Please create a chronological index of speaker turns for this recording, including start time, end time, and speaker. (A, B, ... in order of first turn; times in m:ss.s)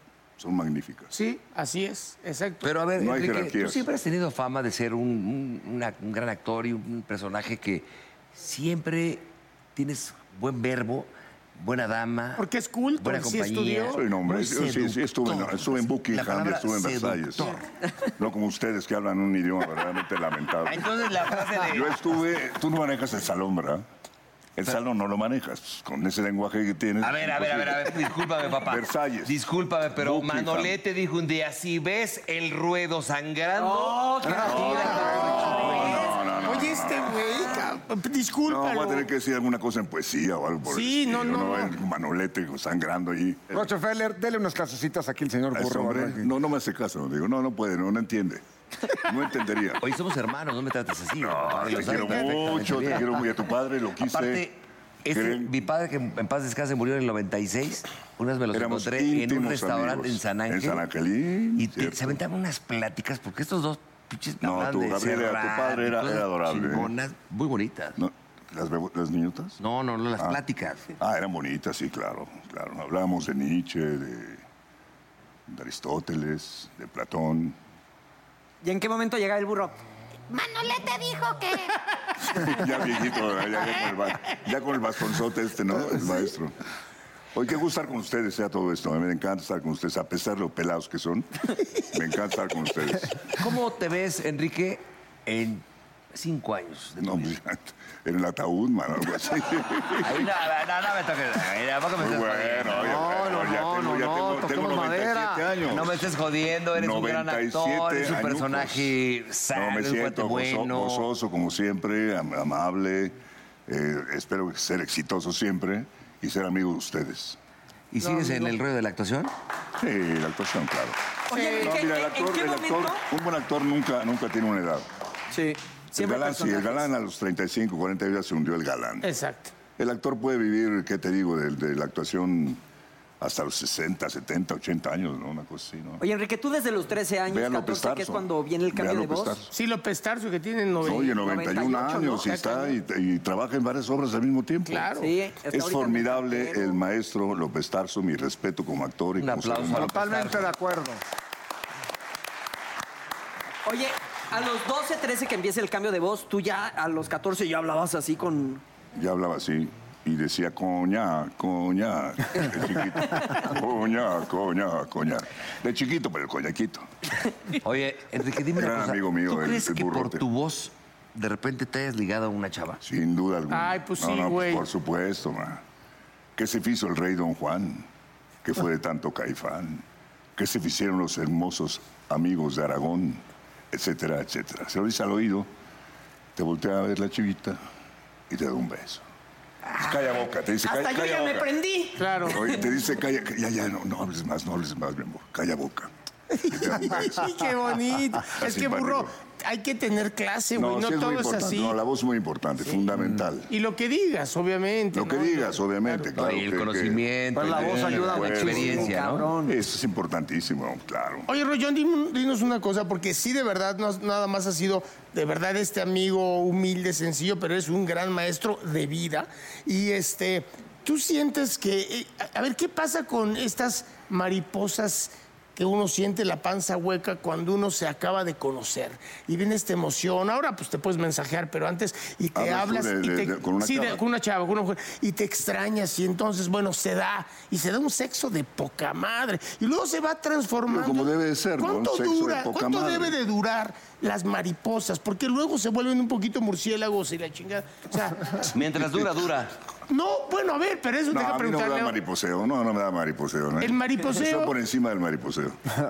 0:00.4-0:01.1 A
0:01.1-0:02.7 B
0:02.6-0:12.4 C
0:02.9-0:03.8 A
0:12.4-0:14.0 B
0:13.0-0:17.6 C
0:13.9-0:17.6 A
0:18.2-0:23.8 A
0:20.6-0:22.0 C
0:24.6-0:28.0 A
0:27.0-0:35.7 C
0:28.6-0:29.4 A
0:30.0-0:30.7 A
0:33.6-0:36.2 D
0:34.2-0:35.7 E
0:34.5-0:37.2 A
0:36.4-0:39.1 B
0:38.5-0:43.7 A
0:40.6-0:41.8 B
0:43.5-0:46.3 E
0:45.5-0:49.8 A
0:49.8-0:53.2 C
0:51.2-0:54.4 A
0:54.0-1:00.8 C
0:55.1-0:55.5 A
0:58.5-1:02.2 A
1:01.6-1:08.0 C
1:04.4-1:06.9 A
1:08.0-1:09.6 A
1:09.6-1:10.9 C
1:11.0-1:14.4 A
1:15.5-1:17.6 A
1:18.6-1:19.8 D
1:20.3-1:21.7 D
1:22.3-1:26.5 A
1:27.3-1:31.3 A
1:31.8-1:33.3 A
1:33.4-1:37.3 C
1:37.0-1:40.3 A
1:40.0-1:43.1 C
1:42.0-1:46.1 A
1:42.8-1:45.5 E
1:45.6-1:51.1 C
1:46.7-1:48.9 A
1:49.5-1:53.1 A
1:53.7-1:57.4 A
1:57.9-1:59.3 C
1:58.0-1:58.6 B
1:59.8-2:01.0 A
2:01.3-2:03.0 D
2:01.3-2:01.8 B
2:01.6-2:04.8 A
2:05.3-2:06.9 D
2:05.9-2:09.1 A
2:09.0-2:09.5 B
2:09.8-2:12.6 A
2:13.2-2:16.0 A
2:16.0-2:19.4 D
2:17.3-2:19.5 A
2:19.5-2:22.7 B
2:20.8-2:24.9 A
2:21.1-2:22.3 D
2:24.6-2:25.1 B
2:25.0-2:26.8 D
2:25.5-2:29.9 A
2:29.2-2:30.5 C
2:29.7-2:31.0 E
2:33.6-2:38.6 D
2:39.0-2:46.9 A
2:47.6-2:52.8 C
2:48.5-2:50.2 A
2:52.8-2:55.6 A
2:53.5-2:54.7 B
2:56.4-2:57.9 A
2:58.4-2:59.8 A
3:00.4-3:05.5 A
3:06.3-3:07.6 A
3:08.3-3:09.0 A
3:09.7-3:11.5 A
3:10.6-3:12.6 D
3:12.0-3:12.4 B
3:12.3-3:15.9 A
3:16.3-3:21.8 B
3:16.4-3:17.4 A
3:18.2-3:19.1 A
3:20.5-3:23.5 A
3:23.5-3:26.1 B
3:24.9-3:31.3 A
3:26.1-3:29.3 C
3:27.3-3:29.5 E
3:31.3-4:08.5 B
3:52.3-3:54.0 A
4:00.7-4:03.1 A
4:08.5-4:09.5 C
4:09.9-4:11.9 B
4:11.1-4:15.6 A
4:13.6-4:14.5 B